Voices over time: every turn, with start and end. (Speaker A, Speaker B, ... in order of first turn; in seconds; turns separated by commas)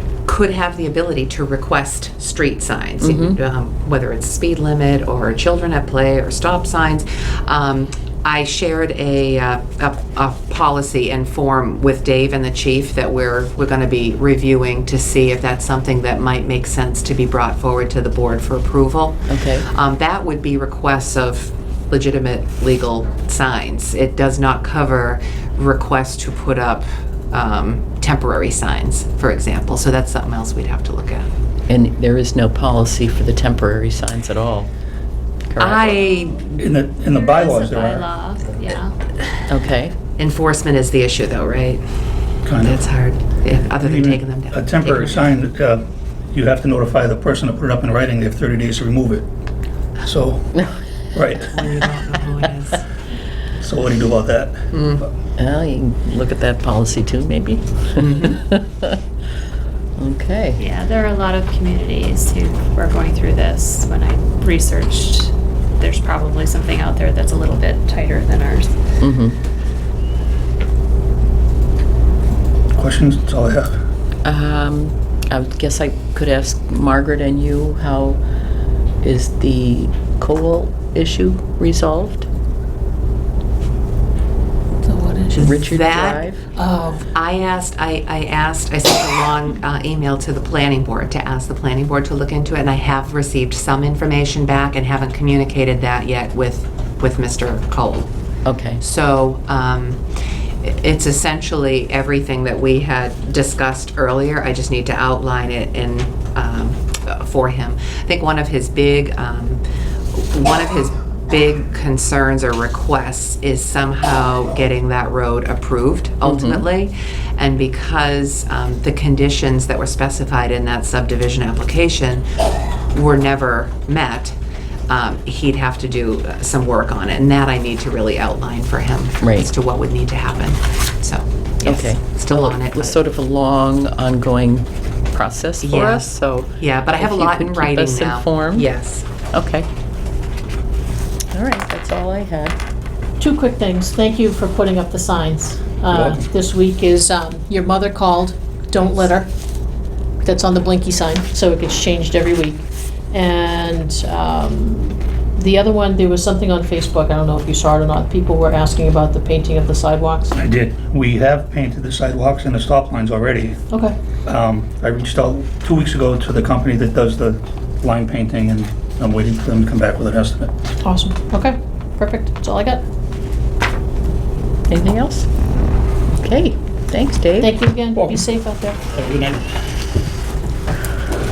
Speaker A: 0.3-31.3, Speaker B: 3.0-3.4, Speaker B: 19.3-19.7, Speaker B: 31.7-34.7, Speaker B: 35.5-36.0, Speaker A: 35.6-36.6, Speaker C: 36.6-38.1, Speaker D: 37.3-38.9, Speaker B: 39.5-40.0, Speaker A: 40.2-41.8, Speaker C: 42.5-42.8, Speaker A: 42.5-45.3, Speaker C: 43.8-49.3, Speaker C: 50.0-50.5, Speaker C: 51.1-51.6, Speaker A: 51.5-52.8, Speaker C: 53.6-54.7, Speaker A: 54.7-55.0, Speaker B: 55.4-59.0, Speaker A: 58.0-58.4, Speaker B: 60.0-60.6, Speaker D: 60.6-68.7, Speaker B: 69.0-69.4, Speaker C: 72.7-73.8, Speaker B: 74.2-78.2, Speaker B: 79.0-82.3, Speaker E: 84.9-85.3, Speaker A: 85.3-86.2, Speaker B: 85.4-86.5, Speaker E: 86.6-87.0, Speaker A: 87.2-98.1, Speaker B: 98.5-98.8, Speaker A: 98.8-100.0, Speaker A: 100.6-109.6, Speaker A: 110.1-122.3, Speaker B: 116.2-116.7, Speaker A: 122.9-124.4, Speaker A: 124.9-133.0, Speaker B: 129.2-129.5, Speaker B: 131.7-138.7, Speaker A: 135.6-139.1, Speaker B: 139.3-139.7, Speaker B: 141.3-142.6, Speaker E: 143.2-149.3, Speaker C: 145.9-146.3, Speaker E: 150.2-160.3, Speaker C: 160.3-163.6, Speaker C: 164.3-170.5, Speaker E: 170.8-172.8, Speaker B: 174.7-175.3, Speaker B: 176.2-177.5, Speaker E: 177.4-178.8, Speaker C: 178.0-178.2, Speaker C: 178.9-179.4